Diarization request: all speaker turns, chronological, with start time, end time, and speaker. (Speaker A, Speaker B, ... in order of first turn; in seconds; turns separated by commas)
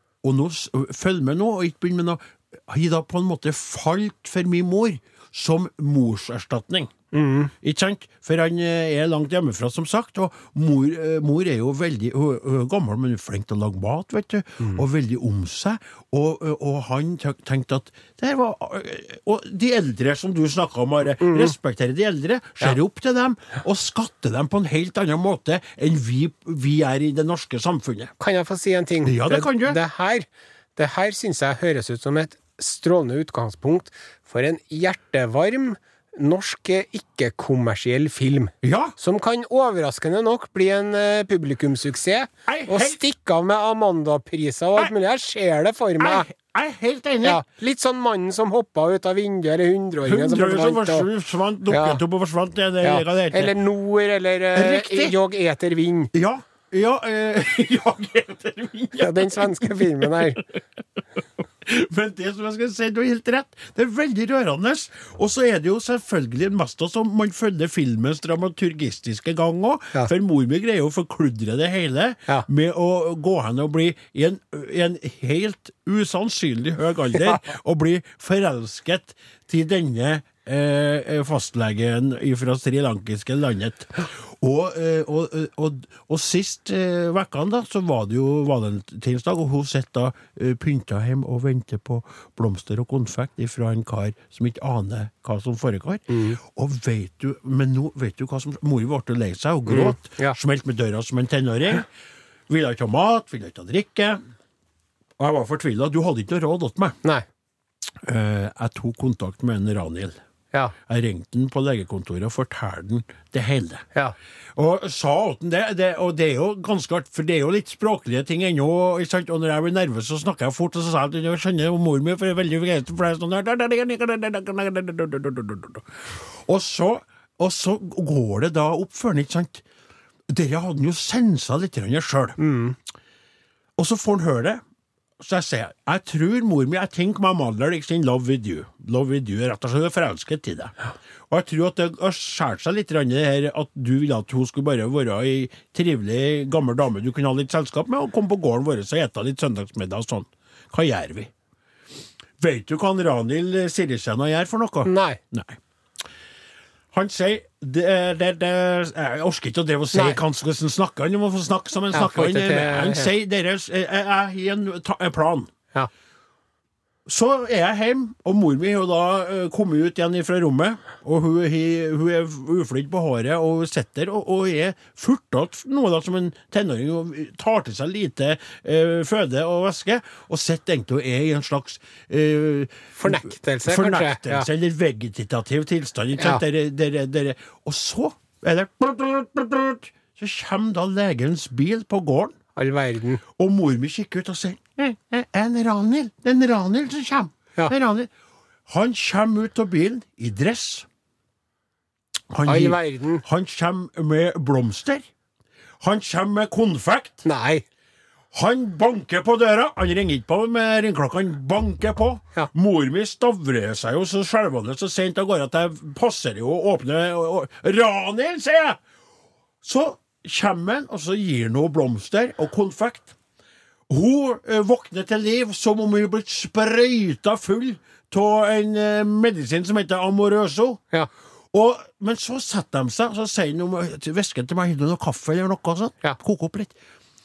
Speaker A: 0.2-6.9, Speaker B: 7.1-7.5, Speaker A: 7.6-28.1, Speaker B: 21.2-21.5, Speaker B: 28.2-46.3, Speaker A: 29.0-29.8, Speaker A: 38.6-38.9, Speaker A: 42.5-43.0, Speaker A: 46.0-47.4, Speaker B: 47.2-51.1, Speaker A: 50.0-53.5, Speaker B: 51.7-52.0, Speaker B: 52.8-56.1, Speaker A: 54.5-55.2, Speaker A: 56.1-60.3, Speaker B: 59.0-60.4, Speaker A: 61.6-101.8, Speaker B: 96.1-96.4, Speaker B: 99.7-100.4, Speaker A: 102.5-104.2, Speaker A: 105.2-107.0, Speaker A: 108.0-110.2, Speaker A: 110.8-113.8, Speaker A: 114.5-129.6, Speaker A: 130.3-132.4, Speaker B: 132.4-132.8, Speaker A: 133.8-134.6, Speaker A: 135.2-140.7, Speaker A: 141.3-151.3, Speaker A: 152.4-155.6, Speaker B: 154.8-155.2, Speaker A: 156.9-165.5, Speaker B: 159.9-160.2, Speaker B: 161.9-163.1, Speaker A: 167.1-192.3, Speaker B: 182.9-184.5, Speaker B: 192.6-193.2, Speaker A: 193.4-198.1, Speaker A: 198.7-200.9, Speaker A: 202.3-205.1, Speaker B: 202.4-203.2, Speaker A: 205.8-207.2, Speaker B: 207.2-207.6, Speaker A: 208.3-218.8, Speaker A: 219.6-223.1, Speaker A: 223.9-230.8, Speaker A: 231.5-236.7